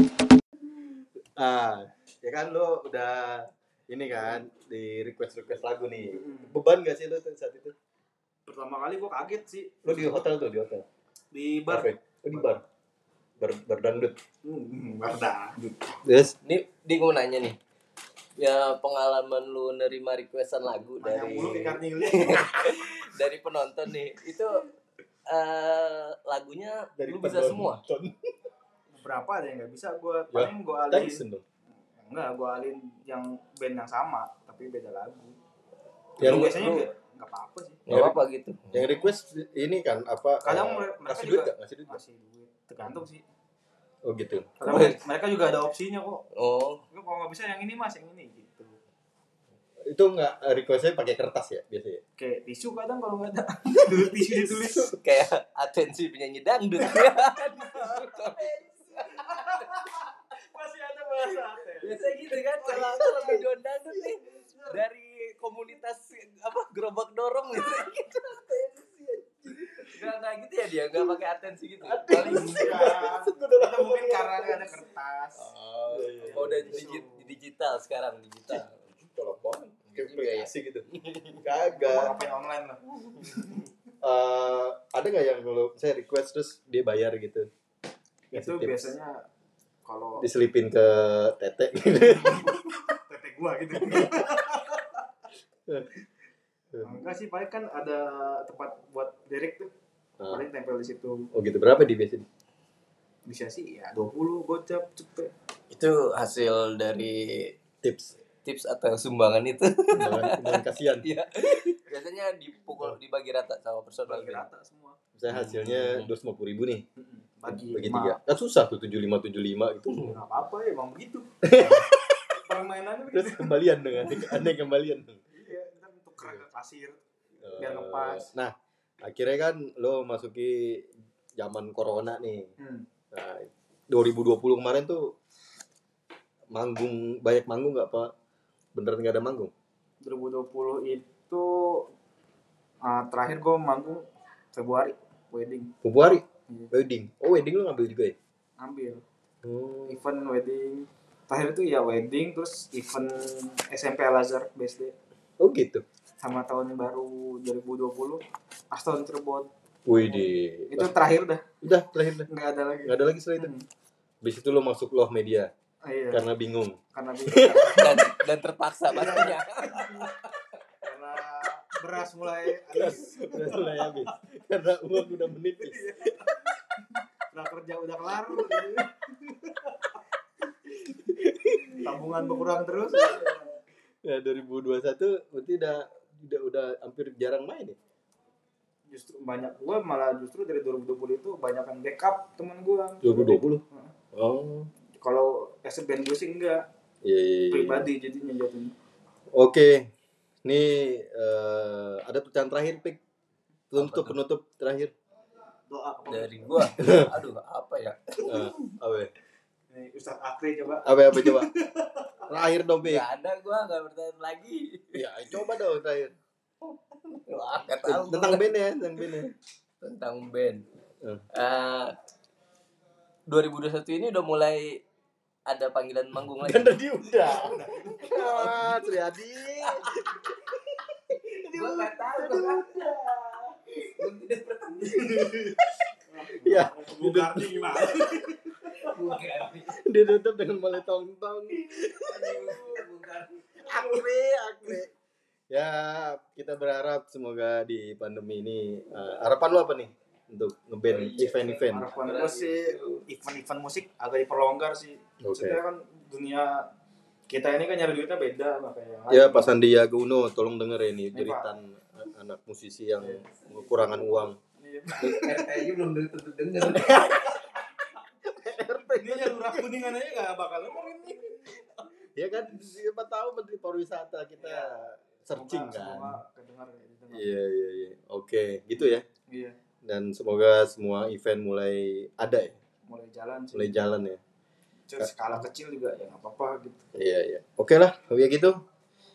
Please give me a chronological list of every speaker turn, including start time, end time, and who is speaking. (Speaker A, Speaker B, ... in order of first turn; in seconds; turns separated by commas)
Speaker A: 1.4-7.8, Speaker B: 6.1-6.5, Speaker B: 8.5-10.1, Speaker A: 9.8-10.8, Speaker B: 11.3-12.6, Speaker A: 11.7-12.6, Speaker A: 13.4-14.2, Speaker B: 14.4-16.0, Speaker A: 16.0-16.4, Speaker C: 16.4-17.6, Speaker C: 18.4-24.7, Speaker B: 21.0-22.8, Speaker C: 25.3-27.8, Speaker A: 27.0-28.2, Speaker B: 28.9-31.2, Speaker A: 30.3-31.4, Speaker B: 32.0-35.4, Speaker B: 36.2-37.8, Speaker A: 36.2-36.6, Speaker C: 36.2-36.9, Speaker A: 37.9-38.2, Speaker C: 37.9-38.9, Speaker A: 38.7-42.0, Speaker B: 40.4-43.2, Speaker A: 44.0-44.9, Speaker B: 44.6-46.2, Speaker C: 44.7-45.0, Speaker C: 46.4-46.8, Speaker B: 46.9-48.8, Speaker A: 49.8-52.0, Speaker B: 52.2-54.9, Speaker C: 54.5-59.7, Speaker B: 57.7-58.5, Speaker B: 59.1-62.1, Speaker C: 61.8-68.7, Speaker B: 62.6-63.4, Speaker A: 62.9-63.4, Speaker B: 64.3-64.8, Speaker A: 68.4-70.0, Speaker C: 69.6-73.1, Speaker A: 71.8-74.8, Speaker B: 72.1-75.5, Speaker C: 75.4-79.0, Speaker A: 75.9-76.9, Speaker B: 76.2-77.3, Speaker A: 79.1-80.9, Speaker C: 79.9-81.4, Speaker A: 81.4-82.2, Speaker B: 81.7-83.7, Speaker A: 84.0-87.5, Speaker A: 88.3-88.9, Speaker B: 88.3-89.3, Speaker B: 89.8-90.3, Speaker A: 90.2-92.8, Speaker B: 92.3-95.0, Speaker A: 93.8-94.3, Speaker A: 95.7-95.9, Speaker A: 96.7-97.0, Speaker B: 96.8-99.7, Speaker B: 100.3-101.3, Speaker A: 101.3-102.3, Speaker B: 103.2-105.3, Speaker C: 105.7-107.6, Speaker A: 107.8-108.1, Speaker C: 108.5-114.4, Speaker A: 110.0-111.1, Speaker B: 114.1-115.0, Speaker A: 115.2-116.8, Speaker C: 115.3-116.1, Speaker B: 117.0-118.2, Speaker A: 117.5-120.2, Speaker B: 120.0-124.5, Speaker A: 121.4-122.3, Speaker A: 123.1-125.2, Speaker B: 125.3-127.0, Speaker A: 127.4-132.5, Speaker B: 127.6-128.3, Speaker B: 132.6-132.8, Speaker A: 133.1-135.1, Speaker A: 136.5-138.1, Speaker A: 138.8-139.5, Speaker B: 140.0-141.9, Speaker B: 142.8-145.7, Speaker A: 145.8-148.2, Speaker B: 148.6-149.0, Speaker A: 149.4-150.0, Speaker B: 149.9-154.9, Speaker A: 155.4-155.8, Speaker B: 156.2-161.5, Speaker A: 159.9-160.9, Speaker A: 161.6-162.3, Speaker B: 162.3-163.7, Speaker A: 162.8-163.5, Speaker A: 164.2-165.5, Speaker B: 165.9-166.3, Speaker A: 166.1-168.1, Speaker B: 166.9-168.1, Speaker C: 167.7-170.4, Speaker B: 168.9-170.1, Speaker B: 170.8-174.2, Speaker A: 172.7-176.4, Speaker B: 175.6-176.6, Speaker B: 177.3-180.0, Speaker A: 178.3-178.9, Speaker A: 180.7-183.4, Speaker B: 181.8-183.5, Speaker A: 184.0-187.8, Speaker B: 188.9-193.9, Speaker A: 193.0-193.6, Speaker A: 194.1-194.7, Speaker B: 195.0-196.7, Speaker A: 197.0-197.9, Speaker B: 197.5-198.7, Speaker A: 199.3-199.9, Speaker A: 200.4-203.0, Speaker A: 203.7-204.9, Speaker C: 203.8-204.2, Speaker B: 205.7-206.7, Speaker C: 206.1-208.3, Speaker A: 206.8-207.1, Speaker A: 208.2-209.1, Speaker B: 209.7-212.3, Speaker A: 210.8-211.5, Speaker A: 212.3-213.1, Speaker C: 212.8-215.1, Speaker A: 214.9-216.1, Speaker C: 216.7-218.6, Speaker A: 217.8-219.3, Speaker C: 219.8-220.6, Speaker C: 221.3-221.9, Speaker C: 223.3-224.8, Speaker C: 225.5-226.8, Speaker A: 226.4-230.3, Speaker B: 227.2-228.6, Speaker C: 228.1-228.7, Speaker A: 231.1-232.8, Speaker C: 231.5-235.6, Speaker B: 236.1-238.9, Speaker A: 236.4-238.2, Speaker C: 238.7-239.8, Speaker A: 239.7-242.8, Speaker C: 241.9-244.1, Speaker A: 243.6-244.9, Speaker A: 245.5-251.9, Speaker B: 250.9-256.7, Speaker C: 251.0-253.0, Speaker A: 255.2-255.6, Speaker B: 257.3-259.5, Speaker A: 259.1-264.4, Speaker B: 261.1-261.5, Speaker B: 263.0-263.6, Speaker C: 263.2-263.6, Speaker B: 264.4-265.6, Speaker C: 265.0-267.5, Speaker A: 268.2-269.7, Speaker B: 269.0-271.6, Speaker A: 272.1-276.2, Speaker B: 274.4-277.4, Speaker A: 277.1-279.1, Speaker B: 279.3-279.6, Speaker A: 279.8-282.6, Speaker B: 282.9-283.8, Speaker A: 283.5-284.2, Speaker B: 284.9-286.9, Speaker A: 286.9-288.6